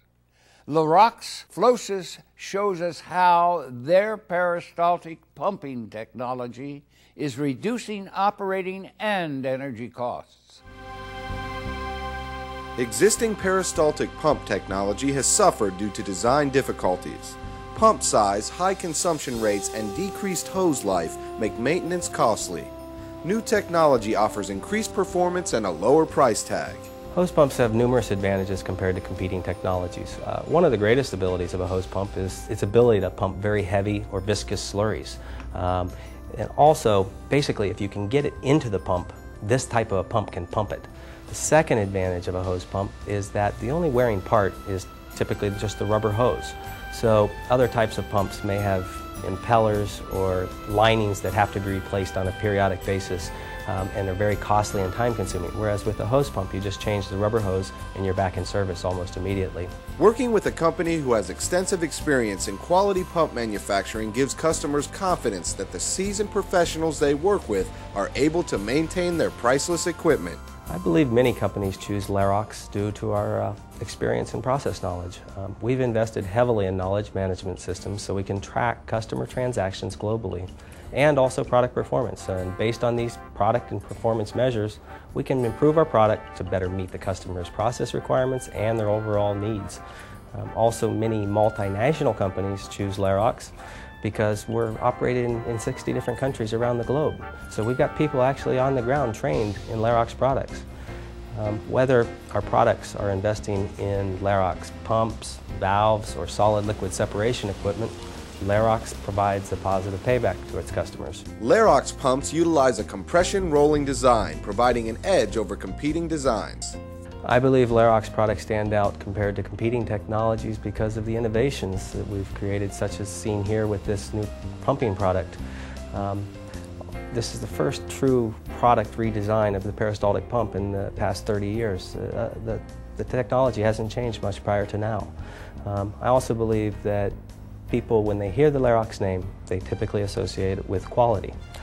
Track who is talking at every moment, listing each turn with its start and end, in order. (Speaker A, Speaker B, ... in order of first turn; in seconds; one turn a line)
Speaker A: 0.7-10.6
Speaker B: 12.8-22.7
Speaker B: 23.2-26.9
Speaker C: 27.1-59.7
Speaker B: 60.0-70.4
Speaker C: 70.7-89.8
Speaker C: 90.3-100.6
Speaker C: 101.3-111.2
Speaker B: 111.4-116.8
Speaker C: 117.2-125.4
Speaker C: 125.9-126.3
Speaker C: 127.1-135.1
Speaker C: 135.6-137.2
Speaker C: 137.7-141.3